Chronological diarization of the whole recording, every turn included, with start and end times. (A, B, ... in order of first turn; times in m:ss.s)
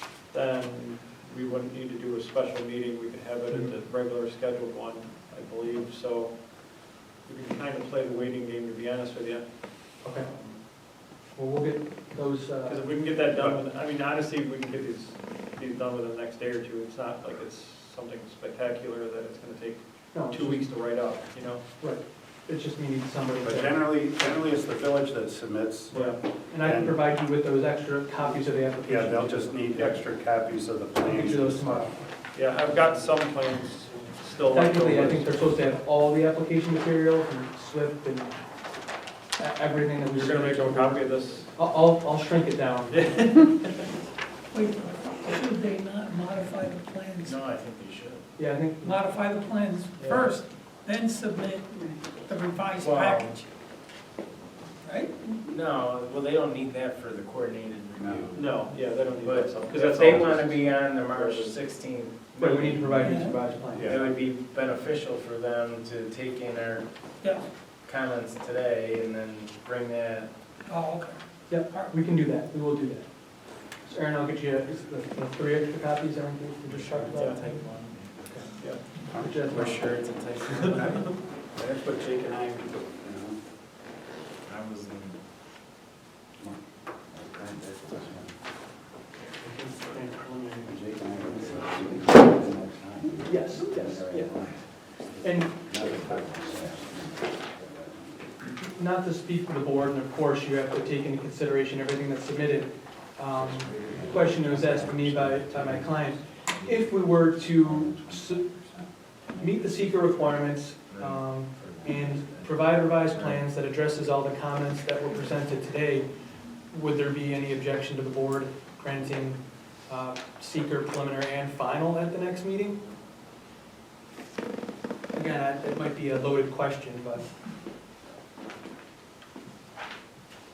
0:00.3-0:10.6 A
0:03.5-0:03.7 B
0:10.0-0:10.3 B
0:11.1-0:12.8 B
0:12.6-0:21.6 A
0:20.1-0:21.0 B
0:21.8-0:23.8 B
0:23.4-0:27.0 C
0:25.9-0:26.2 A
0:26.0-0:29.6 B
0:28.8-0:32.0 C
0:31.0-0:32.0 B
0:32.3-0:35.4 A
0:34.5-0:38.4 B
0:39.4-0:43.4 B
0:40.1-0:41.5 A
0:42.9-0:43.9 A
0:44.5-0:47.5 D
0:47.2-0:48.3 E
0:48.4-0:49.0 B
0:48.8-0:53.5 D
0:50.0-0:50.4 A
0:52.8-0:53.4 E
0:54.8-0:55.4 D
0:55.4-0:58.6 E
0:58.0-0:58.4 C
0:58.3-1:01.6 A
0:59.2-1:03.1 E
1:02.4-1:03.9 B
1:03.0-1:03.4 D
1:03.7-1:04.1 C
1:03.8-1:06.9 E
1:07.2-1:07.5 D
1:07.7-1:10.3 E
1:10.6-1:11.9 D
1:11.5-1:13.1 B
1:13.8-1:18.5 B
1:16.7-1:18.2 E
1:17.1-1:17.6 A
1:18.5-1:18.8 A
1:19.0-1:19.9 B
1:19.1-1:19.6 C
1:19.4-1:21.2 E
1:21.5-1:23.4 C
1:24.4-1:25.2 E
1:26.4-1:28.3 C
1:29.4-1:30.7 B
1:30.6-1:34.6 C
1:33.1-1:34.3 B
1:35.2-1:38.4 C
1:35.2-1:35.5 B
1:38.7-1:48.5 B
1:43.3-1:48.8 C
1:49.3-1:56.1 B
1:50.9-1:53.4 E
1:56.7-2:02.8 B
2:05.1-2:07.3 B